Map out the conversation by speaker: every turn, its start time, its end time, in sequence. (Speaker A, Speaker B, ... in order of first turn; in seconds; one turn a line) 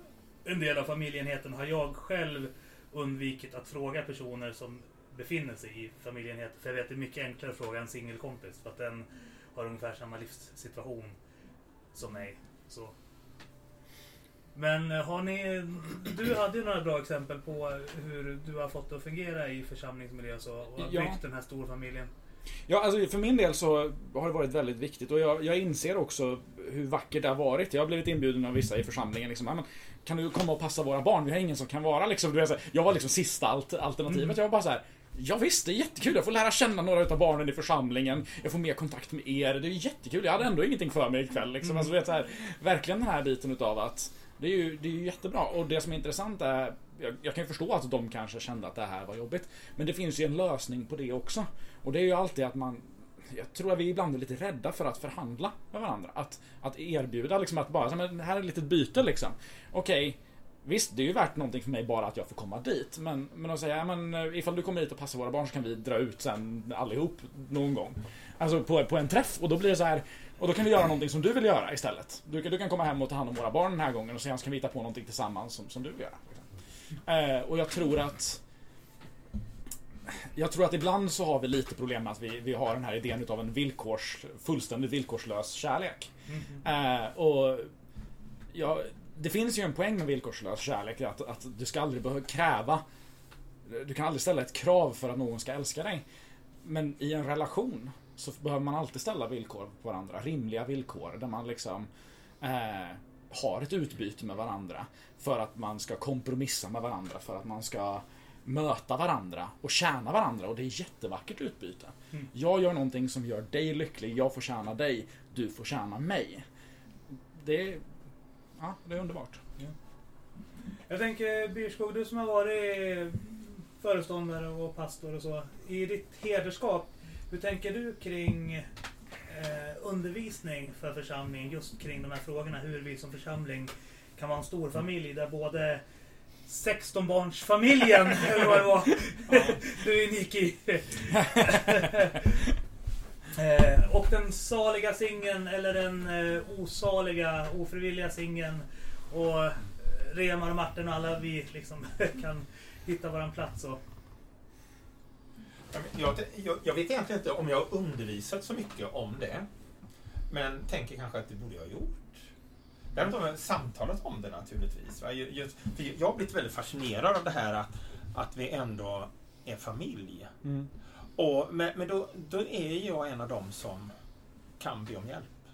Speaker A: 0.4-11.2
Speaker A: 11.9-12.9
Speaker A: 14.5-22.1
Speaker B: 20.8-21.2
Speaker B: 22.7-76.4
Speaker B: 77.0-78.4
Speaker B: 80.1-86.1
Speaker A: 86.3-86.6
Speaker B: 86.6-87.7
Speaker B: 88.5-92.8
Speaker B: 93.7-96.0
Speaker B: 96.6-101.9
Speaker B: 102.4-116.4
Speaker B: 117.3-117.8
Speaker B: 118.6-119.4
Speaker A: 120.9-128.7
Speaker A: 129.3-135.8
Speaker A: 136.5-142.4
Speaker A: 143.3-153.8
Speaker C: 155.7-159.5
Speaker C: 160.3-162.2
Speaker C: 162.9-170.3
Speaker B: 170.4-170.7
Speaker C: 171.2-173.9
Speaker C: 174.6-175.3